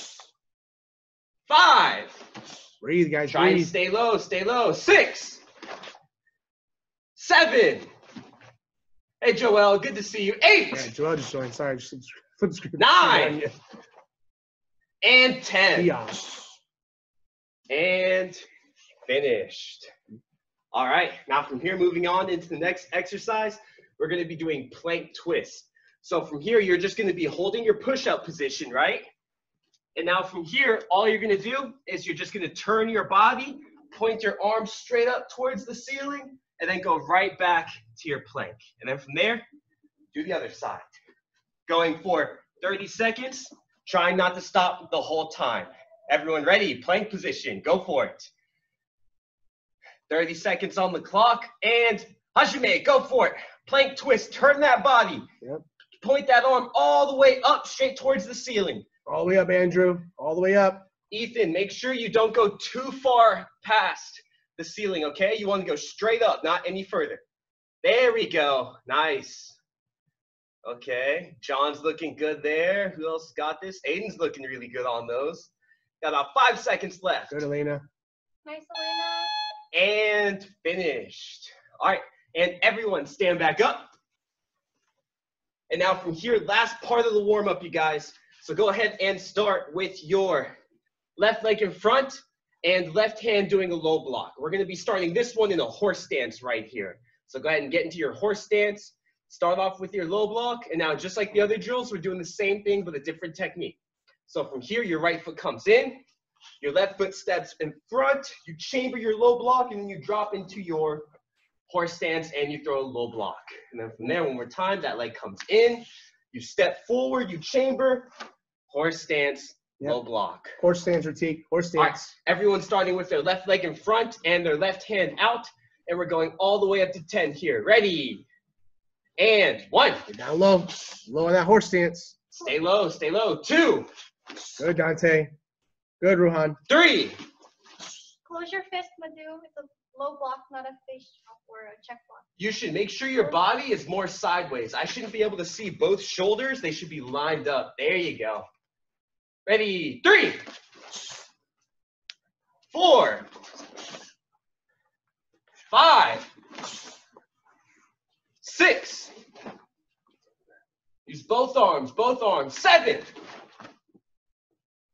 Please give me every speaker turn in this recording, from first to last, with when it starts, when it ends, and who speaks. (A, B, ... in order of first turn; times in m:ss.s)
0:01.5-0:02.2 A
0:02.8-0:03.7 B
0:03.3-0:05.4 A
0:07.2-0:07.9 A
0:09.2-0:10.9 A
0:10.7-0:13.6 B
0:12.8-0:13.4 A
0:15.0-0:15.9 A
0:15.8-0:16.6 B
0:17.7-0:18.5 A
0:19.1-0:19.9 A
0:20.7-0:29.1 A
0:30.0-0:39.5 A
0:40.1-0:40.9 A
0:41.7-0:48.3 A
0:50.1-0:55.3 A
0:56.0-0:58.9 A
0:59.1-1:00.9 B
1:01.1-1:07.2 A
1:07.8-1:09.6 A
1:10.6-1:17.4 A
1:17.3-1:17.8 B
1:18.4-1:19.3 C
1:19.7-1:23.9 A
1:25.7-1:30.6 A
1:31.2-1:46.0 A
1:46.6-1:51.1 A
1:51.7-1:58.1 A
1:58.7-2:00.6 A
2:00.6-2:02.1 B
2:01.8-2:08.2 A
2:09.2-2:10.0 A
2:10.1-2:12.2 B
2:12.4-2:13.9 A
2:14.6-2:15.3 B
2:16.0-2:16.6 B
2:16.7-2:17.2 A
2:18.2-2:22.3 C
2:22.4-2:28.5 A
2:29.5-2:30.5 A
2:32.7-2:33.3 A
2:35.7-2:36.3 A
2:38.4-2:39.2 A
2:41.1-2:43.1 A